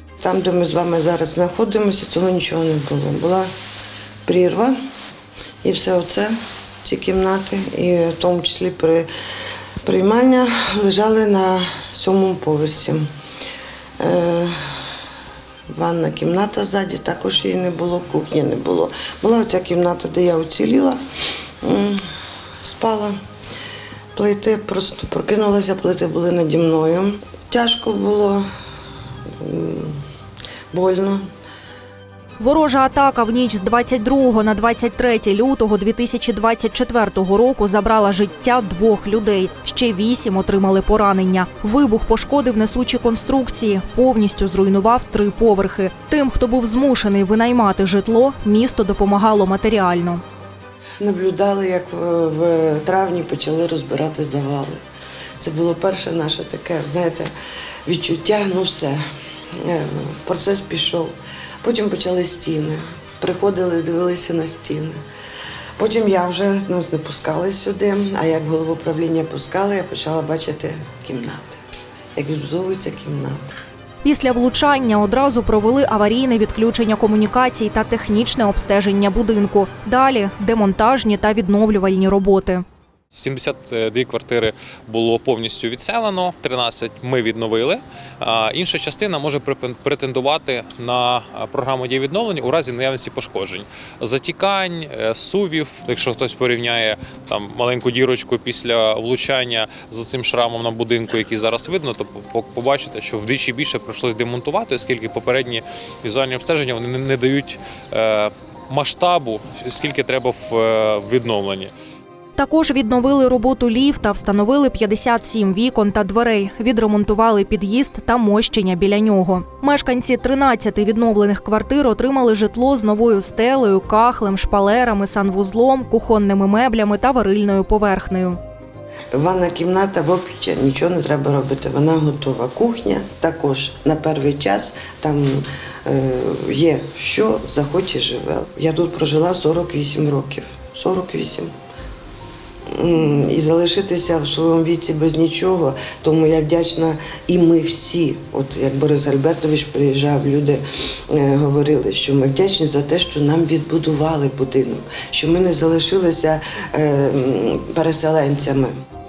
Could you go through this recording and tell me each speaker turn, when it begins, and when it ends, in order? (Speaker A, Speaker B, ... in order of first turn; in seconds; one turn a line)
Speaker A: 0.2-3.5
Speaker A: 4.2-4.8
Speaker A: 5.6-9.1
Speaker A: 9.8-13.1
Speaker A: 14.0-14.8
Speaker A: 15.7-21.0
Speaker A: 21.6-22.0
Speaker A: 22.6-23.1
Speaker A: 24.1-28.4
Speaker A: 29.4-30.0
Speaker A: 30.7-31.2
Speaker B: 32.4-50.2
Speaker A: 51.0-54.8
Speaker A: 55.4-57.3
Speaker A: 57.9-59.0
Speaker A: 59.6-65.0
Speaker A: 65.8-71.6
Speaker A: 72.1-73.5
Speaker B: 74.0-82.6
Speaker C: 83.1-111.7
Speaker B: 112.3-128.4
Speaker A: 129.1-141.5
Speaker A: 142.7-158.7